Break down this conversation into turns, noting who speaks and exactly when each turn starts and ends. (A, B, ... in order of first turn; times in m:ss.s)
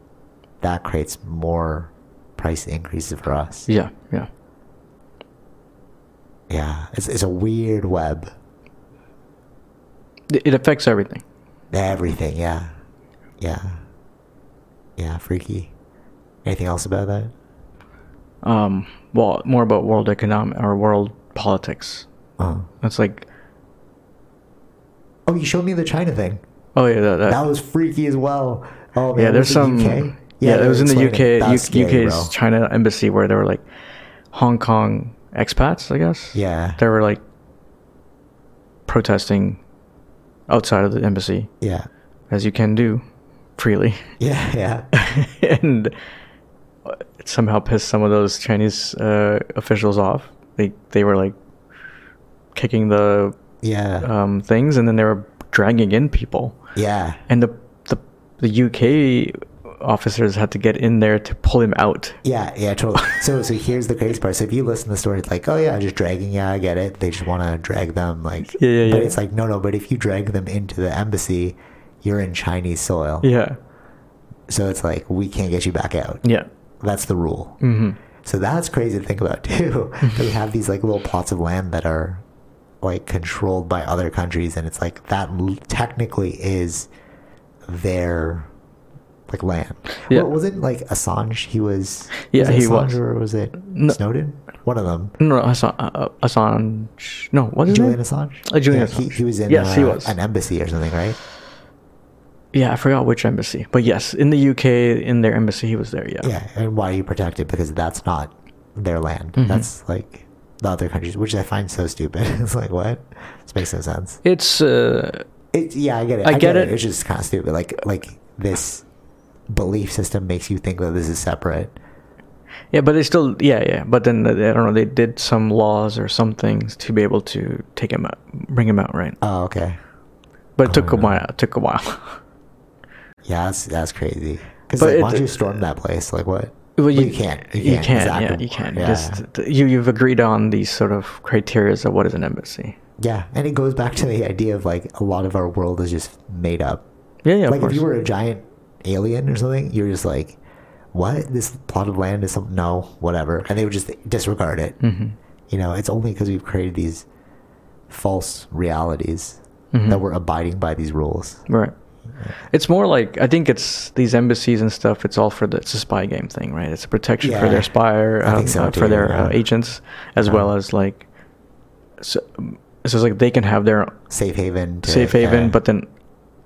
0:00.6-0:03.7 A
0:03.7-0:04.3 B
0:06.5-0:08.3 A
0:10.3-0:11.2 B
0:11.7-0:12.7 A
0:13.4-0:13.8 A
0:15.0-0:15.7 A
0:16.4-0:17.3 A
0:18.4-0:22.1 B
0:22.4-0:22.7 A
0:22.8-0:23.3 B
0:25.3-0:26.4 A
0:26.8-0:27.4 B
0:27.2-0:32.3 A
0:29.2-0:33.7 B
0:34.3-0:37.2 B
0:36.3-0:36.8 A
0:38.9-0:39.6 B
0:40.5-0:41.5 B
0:41.6-0:41.9 A
0:42.3-0:43.0 B
0:43.6-0:44.1 B
0:44.2-0:44.9 A
0:44.9-0:46.0 B
0:46.8-0:51.4 B
0:52.6-0:53.4 B
0:53.6-0:54.1 A
0:54.0-0:56.6 B
0:56.8-0:57.2 A
0:57.3-1:02.2 B
1:02.2-1:13.3 A
1:08.5-1:09.2 B
1:13.2-1:13.6 B
1:14.5-1:16.2 A
1:16.2-1:16.5 B
1:16.8-1:17.6 A
1:17.6-1:18.0 B
1:18.2-1:22.2 A
1:22.8-1:26.9 A
1:27.7-1:28.5 A
1:29.3-1:35.2 A
1:32.2-1:33.0 B
1:33.7-1:34.0 B
1:35.2-1:40.2 B
1:37.7-1:41.2 A
1:42.5-1:46.3 B
1:46.2-1:54.2 A
1:49.4-1:49.7 B
1:54.2-1:55.3 B
1:55.5-1:58.8 A
1:56.2-1:56.8 B
1:59.5-2:01.7 A
2:02.7-2:09.2 B
2:09.2-2:09.8 A
2:10.6-2:12.2 B
2:10.6-2:11.2 A
2:13.2-2:19.2 A
2:14.8-2:15.4 B
2:16.8-2:22.8 B
2:23.0-2:26.8 A
2:27.2-2:27.9 B
2:27.5-2:30.4 A
2:30.9-2:34.8 A
2:34.8-2:35.2 B
2:35.5-2:37.1 A
2:37.9-2:41.5 A
2:39.7-2:40.0 B
2:41.5-2:41.7 B
2:42.5-2:51.0 B
2:47.2-2:49.4 A
2:50.2-2:50.5 A
2:52.0-2:54.0 B
2:54.1-2:55.6 A
2:54.8-2:55.9 B